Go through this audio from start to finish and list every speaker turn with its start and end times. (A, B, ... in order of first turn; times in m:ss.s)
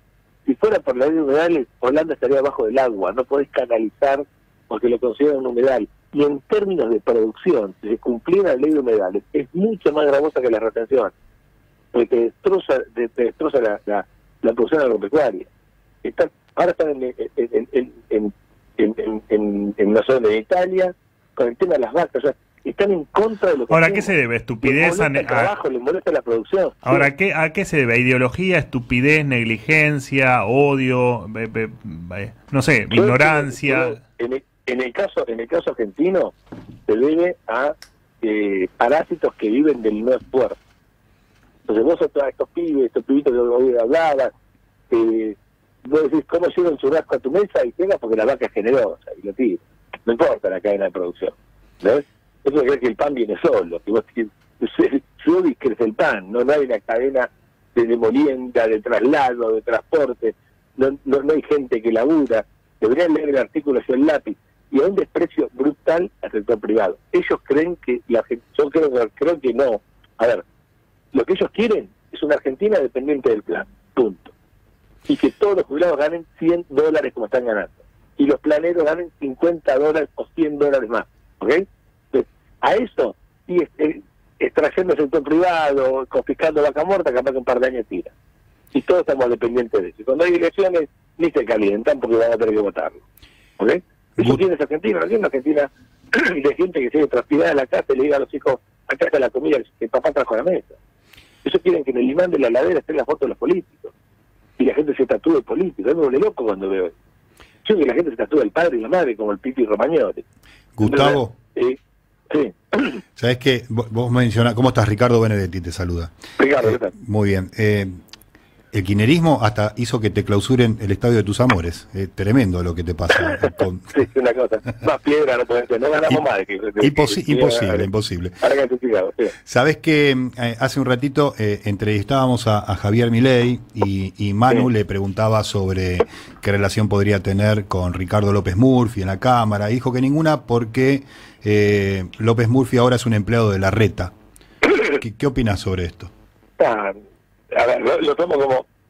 0:00.5-0:11.1 A
0:11.9-0:15.5 A
0:16.0-0:24.1 A
0:23.7-0:25.5 B
0:24.6-0:27.1 A
0:26.8-0:34.0 B
0:32.9-0:36.3 A
0:36.9-0:40.6 A
0:41.7-0:44.3 A
0:44.9-1:10.4 A
1:11.1-1:14.3 A
1:15.1-1:28.1 A
1:28.7-1:33.0 A
1:33.6-1:40.7 A
1:34.2-1:34.4 C
1:41.4-1:43.9 A
1:44.6-1:46.9 A
1:47.6-1:50.2 A
1:50.8-1:51.4 C
1:50.8-1:51.8 A
1:52.3-1:53.0 A
1:53.2-1:58.0 C
1:56.4-1:56.9 A
1:58.7-2:03.9 C
2:03.1-2:07.9 A
2:06.8-2:08.4 C
2:08.4-2:09.3 A
2:09.5-2:24.1 C
2:25.0-2:26.1 C
2:26.6-2:27.0 A
2:27.5-2:28.7 A